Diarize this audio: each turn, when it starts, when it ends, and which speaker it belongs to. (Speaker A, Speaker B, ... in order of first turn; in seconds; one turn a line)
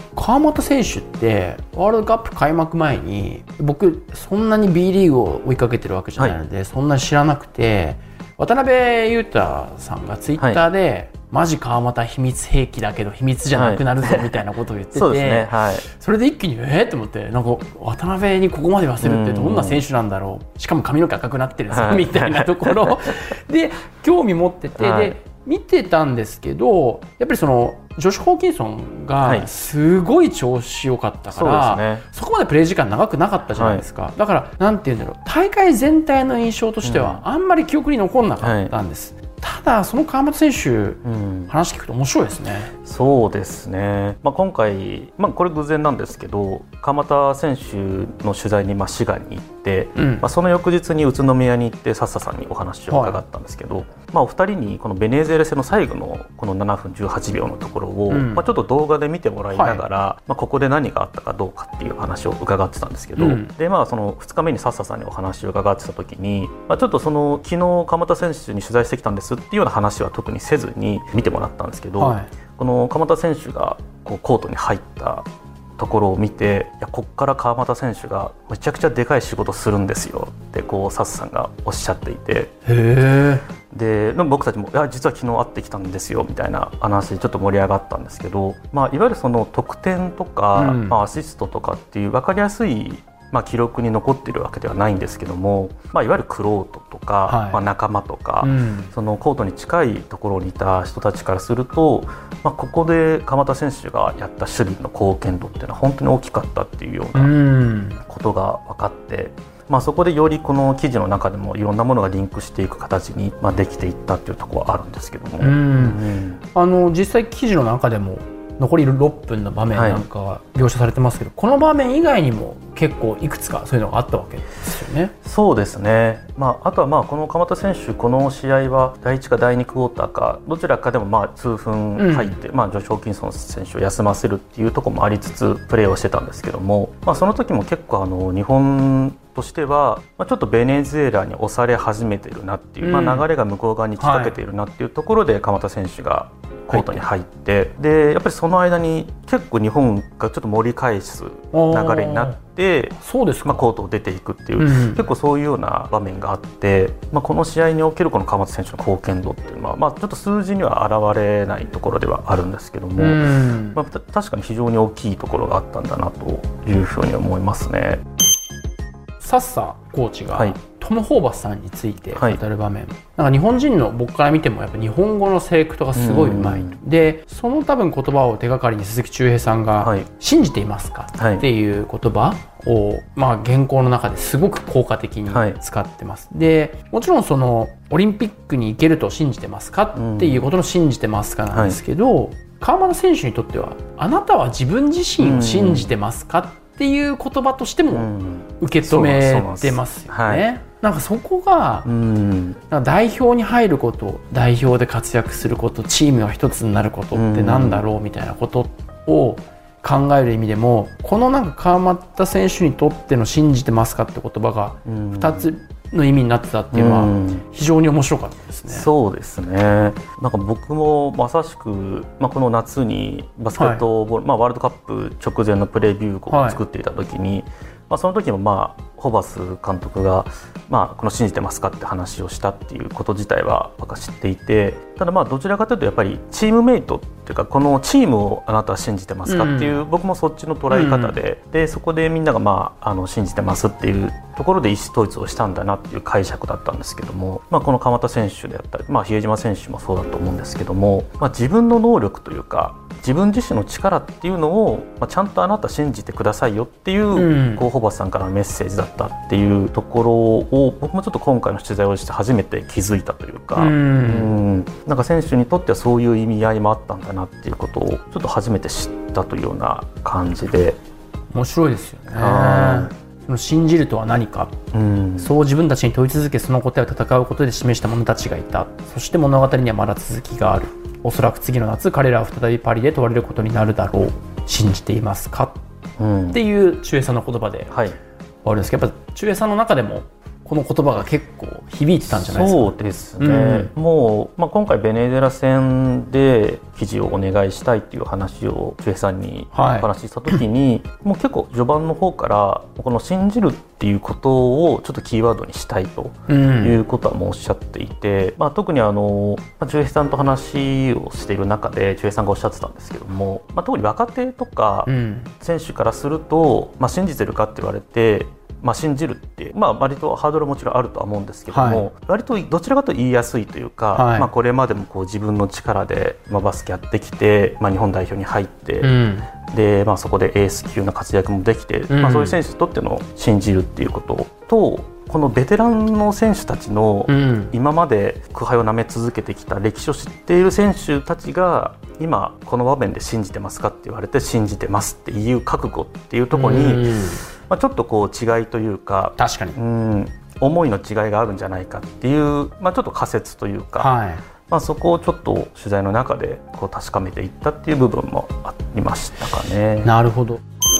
Speaker A: 0.1-42.7
Speaker B: 10.4-10.6
Speaker B: 13.5-14.4
Speaker B: 14.9-15.9
Speaker B: 19.0-19.8
Speaker B: 21.7-22.9
Speaker B: 24.8-25.2
Speaker B: 29.2-29.5
Speaker B: 31.3-32.0
Speaker B: 33.5-33.9
Speaker B: 36.8-37.2
Speaker B: 38.4-38.7
Speaker B: 41.0-41.5
Speaker B: 42.8-75.3
Speaker A: 50.0-50.3
Speaker A: 52.9-53.2
Speaker A: 58.1-58.5
Speaker A: 59.5-59.8
Speaker A: 63.2-63.5
Speaker A: 72.0-72.3
Speaker B: 75.8-82.5
Speaker A: 82.7-83.4
Speaker B: 83.7-107.3
Speaker A: 90.5-91.0
Speaker A: 97.3-97.6
Speaker A: 98.4-98.9
Speaker A: 107.1-108.0
Speaker B: 108.1-116.4
Speaker A: 115.4-116.0
Speaker A: 116.5-125.1
Speaker B: 119.7-120.0
Speaker B: 125.2-168.0
Speaker A: 132.0-132.4
Speaker A: 142.8-143.3
Speaker A: 144.0-144.4
Speaker A: 151.5-152.4
Speaker A: 153.0-153.7
Speaker A: 154.6-155.1
Speaker A: 163.0-163.8
Speaker A: 169.2-201.9
Speaker B: 172.1-172.4
Speaker B: 175.9-176.8
Speaker B: 179.8-180.1
Speaker B: 181.2-181.4
Speaker B: 185.3-185.6
Speaker B: 189.9-190.5
Speaker B: 191.5-191.8
Speaker B: 195.2-195.9
Speaker B: 197.9-200.4
Speaker B: 201.9-202.6
Speaker A: 202.7-218.9
Speaker B: 207.1-207.8
Speaker B: 214.8-215.5
Speaker B: 216.7-217.4
Speaker B: 218.7-270.8
Speaker A: 223.6-223.8
Speaker A: 226.3-226.6
Speaker A: 239.3-239.8
Speaker A: 240.7-241.2
Speaker A: 257.1-257.6
Speaker A: 263.6-264.4
Speaker A: 271.3-274.6
Speaker B: 272.1-272.9
Speaker B: 274.7-275.3
Speaker A: 275.2-285.6
Speaker B: 286.0-286.4
Speaker A: 286.3-287.8
Speaker B: 287.7-288.0
Speaker A: 288.4-293.7
Speaker B: 292.1-328.9
Speaker A: 299.5-300.4
Speaker A: 306.3-306.8
Speaker A: 314.9-315.3
Speaker A: 321.5-321.9
Speaker A: 323.9-324.3
Speaker A: 328.8-329.3
Speaker B: 329.5-353.9
Speaker A: 331.9-332.4
Speaker A: 337.1-337.5
Speaker A: 346.3-347.2
Speaker A: 349.2-349.6
Speaker A: 353.8-354.2
Speaker B: 354.5-359.9
Speaker A: 359.8-360.4